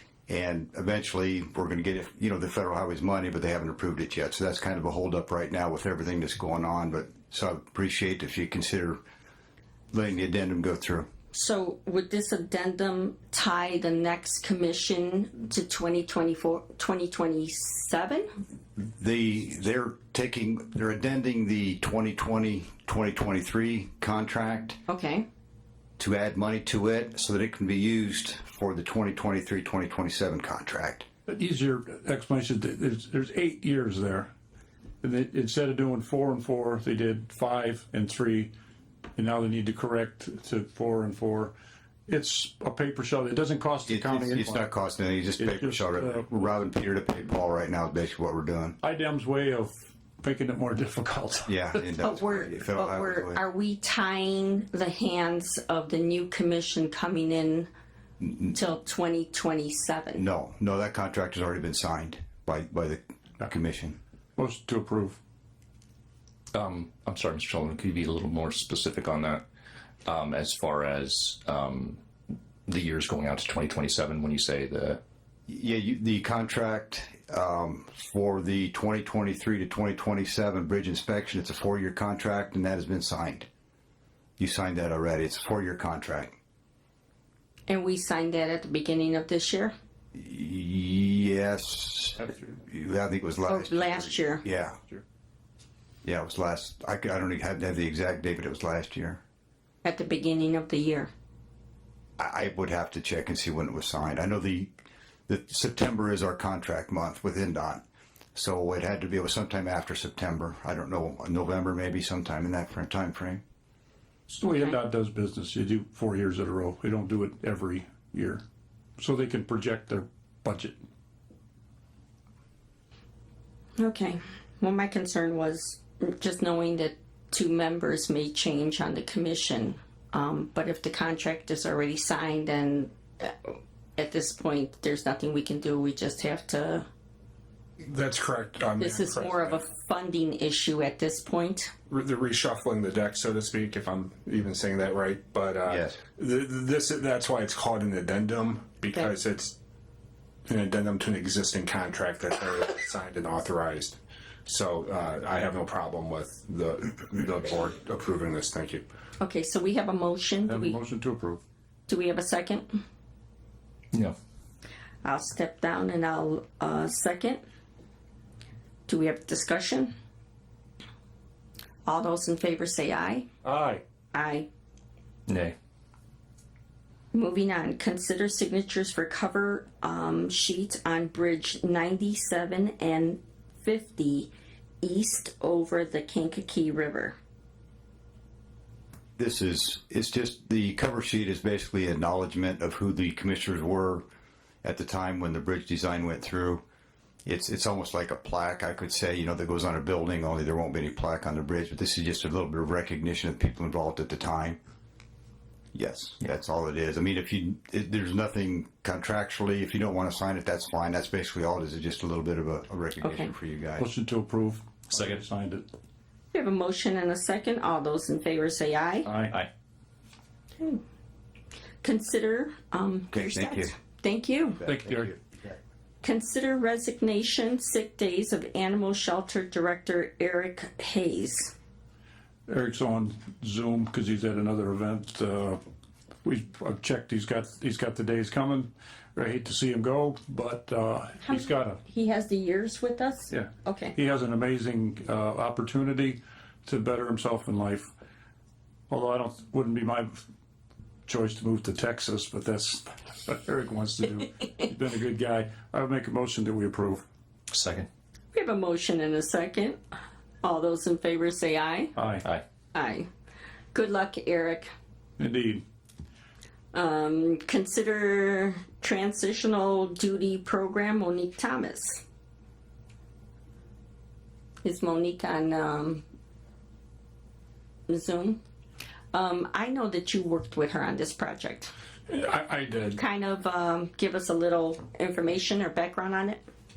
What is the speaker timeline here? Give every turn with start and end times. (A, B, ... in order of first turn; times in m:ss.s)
0:00.3-0:09.0 A
0:09.9-0:11.1 A
0:11.3-0:18.3 B
0:18.8-0:24.8 A
0:24.9-0:25.2 B
0:26.0-0:31.0 A
0:31.3-0:34.3 C
0:35.0-0:38.5 C
0:39.2-0:41.5 C
0:42.1-0:44.6 C
0:43.9-0:48.8 A
0:45.4-0:46.3 C
0:48.8-0:51.8 C
0:51.5-0:53.4 A
0:52.0-0:57.7 B
0:58.5-1:00.2 B
1:00.2-1:04.0 A
1:04.4-1:05.2 C
1:06.5-1:09.4 D
1:10.0-1:12.0 D
1:12.7-1:15.0 D
1:15.5-1:23.5 A
1:24.4-1:26.3 A
1:27.7-1:29.7 B
1:30.1-1:34.8 A
1:33.5-1:34.4 B
1:36.0-1:39.2 A
1:39.8-1:41.1 B
1:42.2-1:44.7 A
1:45.3-1:47.8 A
1:48.3-1:53.4 A
1:54.3-1:58.4 C
1:59.0-2:00.8 C
2:03.8-2:16.8 B
2:17.8-2:19.6 E
2:18.8-2:21.7 B
2:21.9-2:29.5 E
2:25.7-2:26.0 A
2:30.5-2:38.8 E
2:39.2-2:40.8 B
2:40.4-2:41.4 C
2:41.9-2:42.8 B
2:45.0-2:47.4 B
2:48.9-2:49.9 B
2:51.8-2:53.3 B
2:54.1-2:54.5 B
2:55.3-2:55.6 D
2:57.1-3:04.3 B
3:04.8-3:07.1 B
3:09.2-3:14.0 A
3:14.6-3:16.6 A
3:17.2-3:24.6 A
3:25.7-3:33.8 A
3:33.0-3:33.3 B
3:33.8-3:35.6 C
3:36.3-3:39.1 B
3:39.0-3:39.4 C
3:41.8-3:44.6 B
3:43.1-3:43.7 A
3:44.6-3:45.2 A
3:44.7-3:45.1 C
3:46.0-3:51.5 B
3:52.5-3:55.6 C
3:56.2-4:01.8 C
4:01.2-4:03.9 B
4:03.3-4:07.9 C
4:08.9-4:10.2 C
4:11.1-4:17.0 C
4:17.5-4:17.9 D
4:18.3-4:19.8 B
4:20.4-4:21.9 B
4:22.0-4:22.3 C
4:22.7-4:23.1 B
4:23.7-4:24.7 B
4:25.2-4:25.6 C
4:26.7-4:32.0 B
4:34.6-4:36.0 B
4:37.9-4:38.4 B
4:39.1-4:41.7 B
4:42.1-4:43.0 E
4:43.0-4:46.4 B